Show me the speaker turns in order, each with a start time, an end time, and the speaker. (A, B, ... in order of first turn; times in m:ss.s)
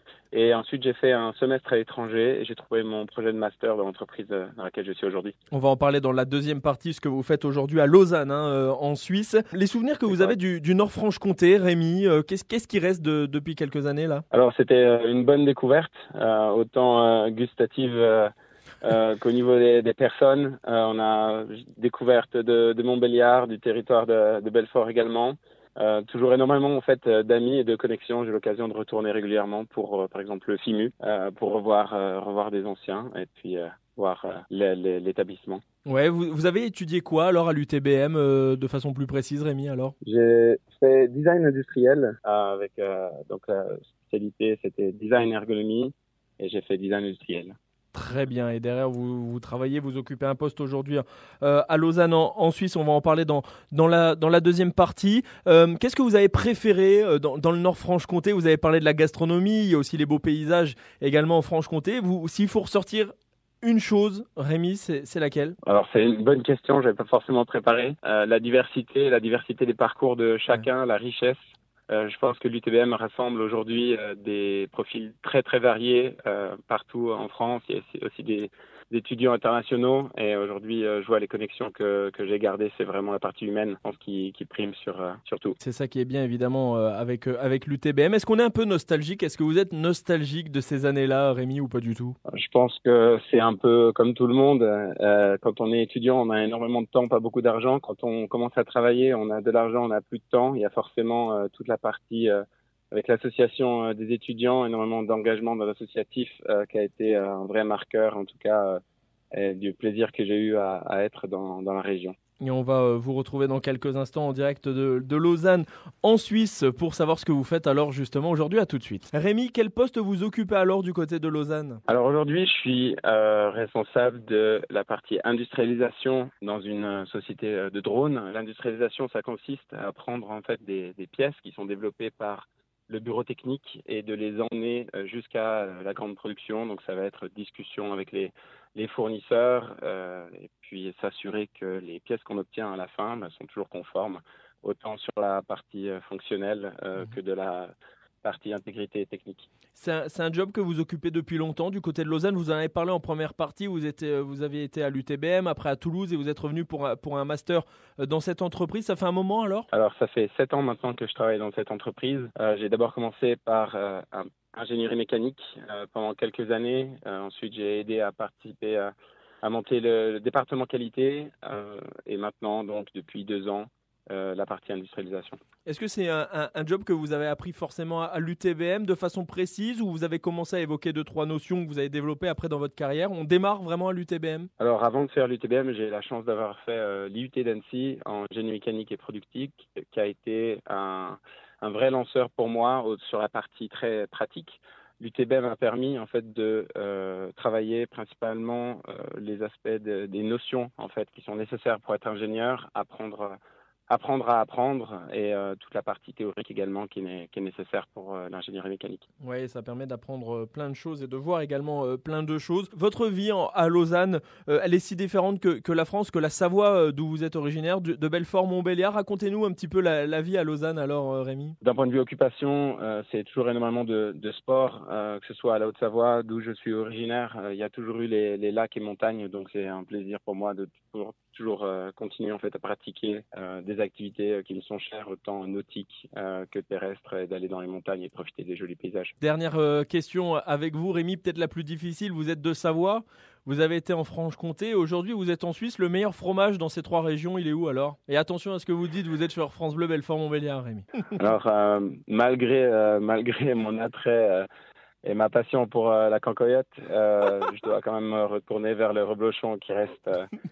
0:00.3-0:05.4 A
0:05.5-0:14.2 B
0:10.1-0:10.4 A
0:14.3-0:18.3 A
0:18.8-0:35.6 A
0:35.9-0:40.0 B
0:40.0-0:47.6 A
0:47.9-1:05.6 B
1:05.6-1:25.6 A
1:25.6-1:32.2 B
1:32.3-1:48.8 A
1:49.3-1:52.2 A
1:52.4-2:01.8 B
2:01.9-2:29.5 A
2:29.8-2:39.7 B
2:39.7-2:55.4 A
2:55.7-3:04.5 B
3:04.6-3:23.4 A
3:23.9-3:29.0 A
3:29.2-3:41.6 B
3:41.6-3:59.1 A
3:59.2-4:10.9 B
4:11.2-4:14.5 A
4:15.0-4:20.3 A